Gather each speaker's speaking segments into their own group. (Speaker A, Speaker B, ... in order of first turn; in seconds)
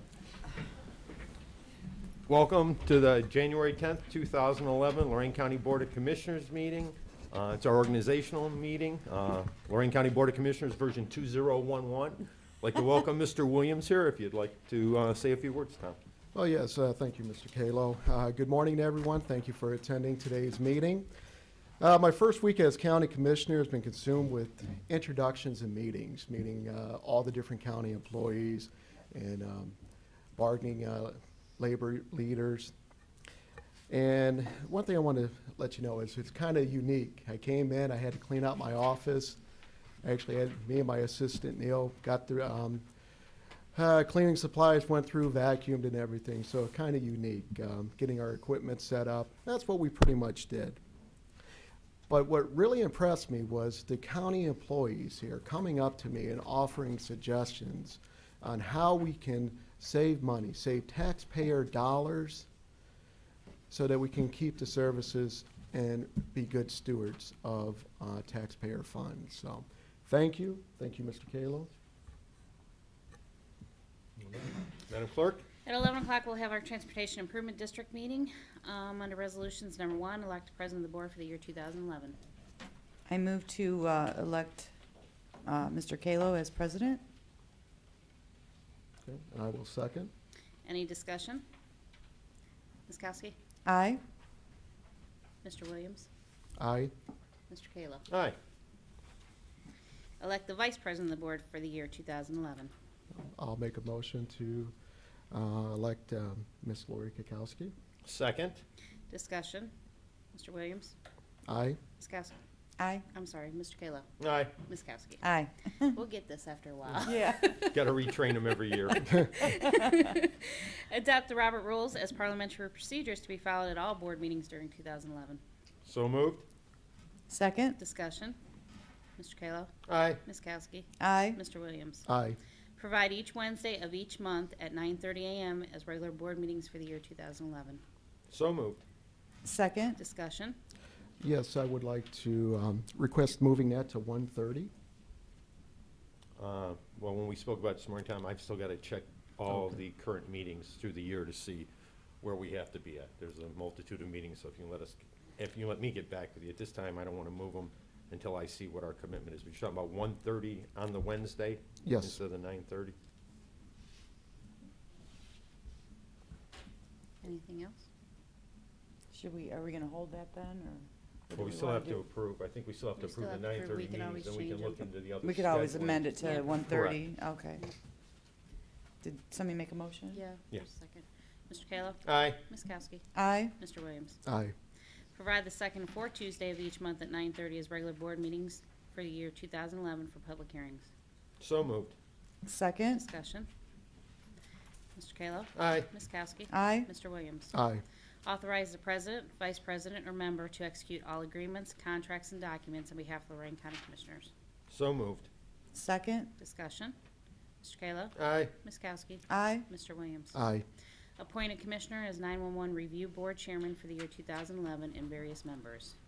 Speaker A: 2.3-16.0, 74.2-75.4, 98.1-98.4, 108.0-108.6, 114.2-114.5, 117.7-119.5, 125.8-126.5, 129.9-130.2, 138.3-138.8, 146.4-151.7, 152.2-162.9, 171.3-177.0, 182.1-182.4, 191.4-191.9, 195.6-195.9, 204.7-205.3, 208.2-208.5
Speaker B: 16.3-21.1, 21.8-29.8, 30.4-32.7, 33.9-39.4, 40.0-42.9, 43.7-50.8, 52.1-62.5, 63.7-71.7, 89.0-90.1, 96.6-96.9, 103.2-104.7, 105.3-107.7, 111.5-111.8, 132.1-132.4, 141.2-144.7, 161.8-162.2, 184.2-184.6, 197.5-197.8, 210.3-210.7
Speaker C: 75.7-82.2, 90.7-91.4, 92.9-93.3, 95.4-96.1, 97.5-98.0, 100.2-102.7, 109.1-109.7, 110.3-111.0, 112.0-112.4, 113.1-115.3, 115.9-117.8, 119.3-125.4, 127.8-128.4, 129.2-132.1, 132.8-137.8, 140.0-140.6, 167.2-167.9, 173.0-174.8, 176.2-176.5, 180.1-184.2, 185.1-190.9, 192.9-193.5, 195.0-197.5, 198.2-204.3, 206.4-206.9, 207.6-210.4, 211.2-216.0
Speaker D: 83.1-84.7, 85.5-87.0, 93.7-94.0, 112.8-113.1, 115.2-116.0, 117.0-117.6, 127.3-127.8, 131.0-131.4, 139.4-140.0, 169.1-172.0, 175.2-177.6, 179.0-180.2, 183.2-183.5, 192.4-193.1, 196.5-196.9, 205.7-206.3, 209.3-209.7